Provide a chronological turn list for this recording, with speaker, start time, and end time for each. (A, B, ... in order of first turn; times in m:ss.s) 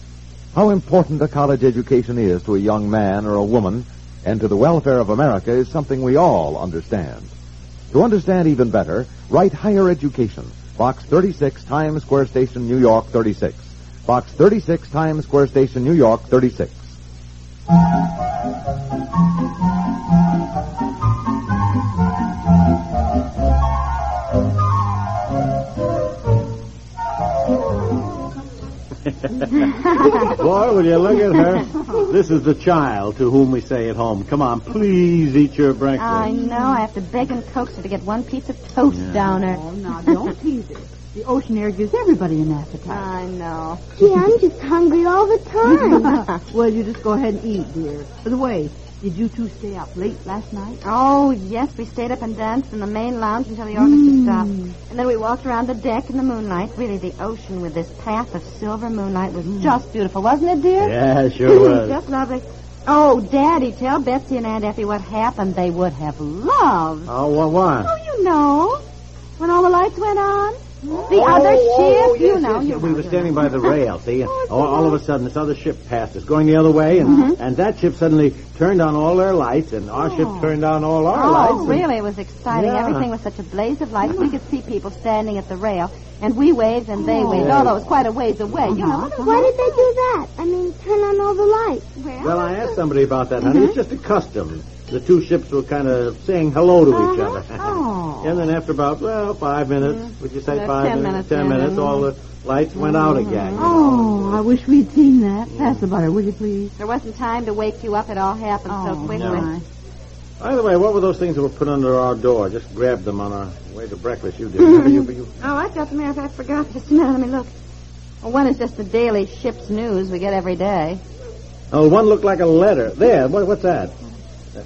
0:00.5-0:07.3 A
0:07.9-0:16.9 A
0:29.1-0:36.3 B
0:29.9-0:30.3 C
0:31.7-0:32.1 D
0:36.0-0:39.6 C
0:38.9-0:39.3 B
0:39.3-0:43.1 D
0:42.9-0:44.0 C
0:44.0-0:46.0 E
0:45.6-0:50.8 D
0:45.8-0:46.3 C
0:50.8-1:07.1 C
0:53.8-0:54.6 D
0:59.5-0:59.8 D
1:00.8-1:02.0 B
1:07.1-1:07.9 B
1:07.8-1:08.8 C
1:09.4-1:13.8 C
1:10.8-1:11.2 D
1:11.0-1:21.8 B
1:14.3-1:14.7 D
1:17.0-1:17.3 D
1:17.0-1:17.4 C
1:20.0-1:20.6 D
1:21.1-1:29.3 C
1:21.4-1:21.8 D
1:22.5-1:23.1 B
1:24.0-1:24.3 D
1:27.0-1:27.6 D
1:27.3-1:27.8 B
1:28.7-1:29.9 D
1:29.2-1:32.8 E
1:32.2-1:44.4 B
1:33.4-1:33.8 C
1:36.9-1:37.8 C
1:37.6-1:38.3 D
1:39.8-1:42.1 C
1:42.7-1:43.8 C
1:43.6-1:46.7 D
1:45.5-1:45.8 B
1:46.8-1:49.5 C
1:48.7-1:49.6 D
1:49.1-1:49.5 B
1:50.4-1:55.4 B
1:54.6-1:57.5 C
1:58.2-2:01.0 C
2:01.7-2:04.0 B